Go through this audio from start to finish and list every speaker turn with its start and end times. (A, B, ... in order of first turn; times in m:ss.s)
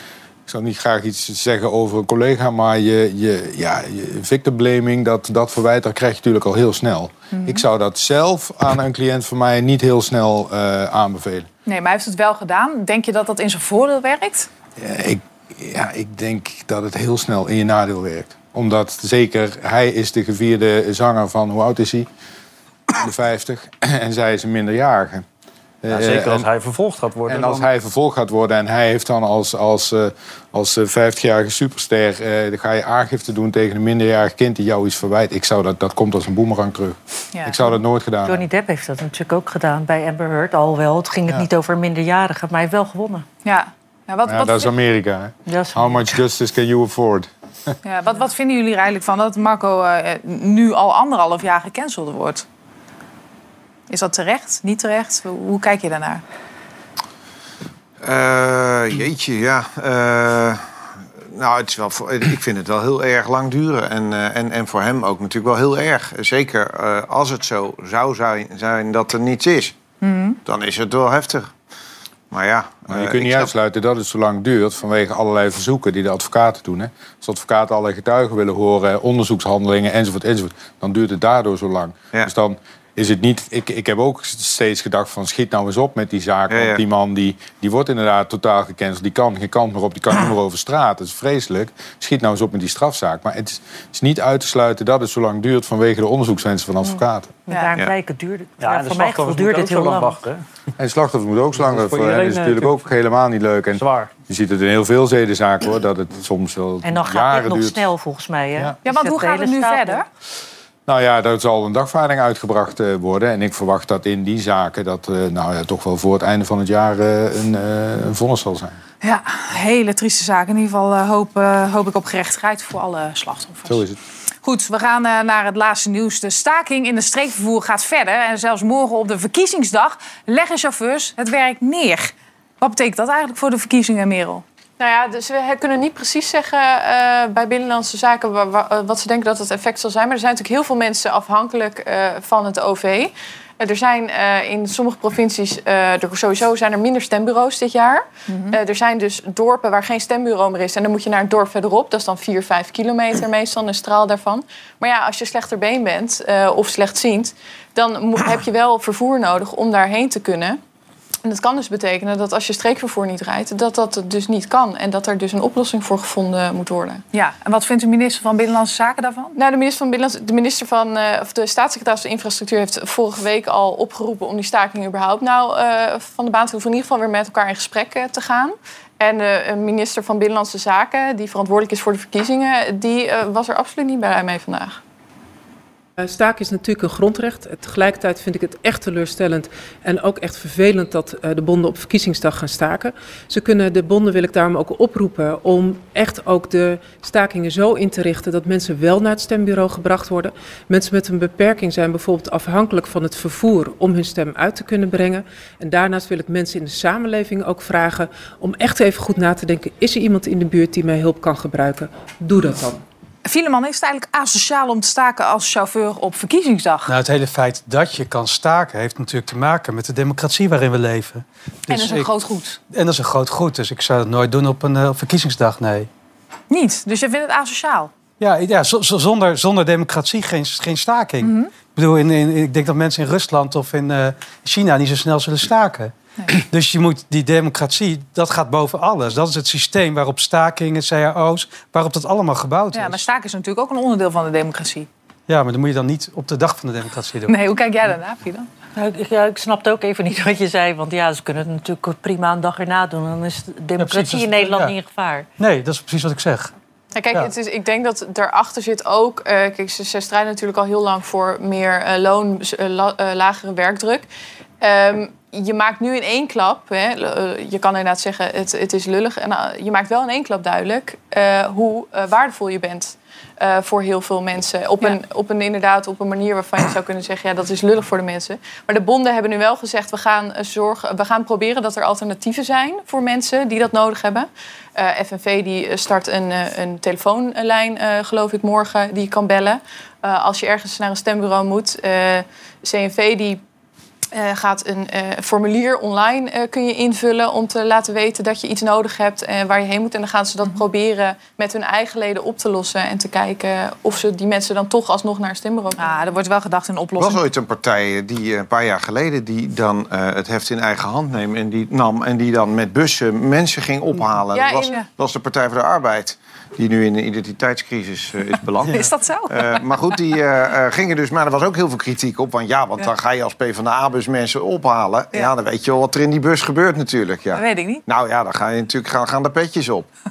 0:00.5-0:11.5 A
0:07.3-0:07.6 B
0:11.6-0:14.5 B
0:14.8-0:22.1 A
0:22.9-0:25.2 A
0:25.8-0:26.5 A
0:25.9-0:27.7 C
0:27.3-0:38.4 A
0:37.3-0:37.7 B
0:38.2-0:43.2 D
0:43.4-0:44.7 B
0:44.2-0:47.3 A
0:45.5-0:46.2 D
0:47.8-0:52.4 B
0:53.9-0:56.2 B
0:58.0-1:00.6 E
1:01.3-1:09.7 E
1:10.0-1:10.4 B
1:10.4-1:11.5 E
1:12.3-1:13.5 E
1:12.9-1:37.3 A
1:26.5-1:26.8 E
1:36.8-1:40.2 D
1:38.6-1:40.4 C
1:40.8-1:47.8 A
1:41.6-1:42.8 C
1:43.7-1:44.1 C
1:46.8-1:50.0 D
1:48.8-1:50.0 B
1:50.9-1:58.8 A
1:59.0-2:03.8 B
2:03.6-2:04.0 A
2:04.4-2:14.4 B
2:14.8-2:40.6 F
2:28.3-2:28.6 B
2:41.2-2:47.0 F
2:47.1-2:49.3 B
2:49.4-3:04.8 F
3:06.0-3:32.8 G
3:33.2-3:36.9 B
3:36.9-3:42.1 H
3:41.7-3:42.6 B
3:42.7-3:45.9 H
3:46.5-3:47.9 B
3:48.2-4:03.0 H
3:51.2-3:51.5 B
4:02.7-4:04.9 B
4:05.3-4:07.3 H
4:07.3-4:08.4 B
4:08.7-4:15.2 D
4:13.8-4:14.7 H
4:15.4-4:16.5 H
4:16.9-4:24.1 F
4:24.6-4:53.4 F
4:54.1-5:05.9 F
5:05.8-5:07.2 B
5:07.0-5:29.9 E
5:14.3-5:14.8 F
5:18.7-5:19.6 B
5:27.3-5:27.8 B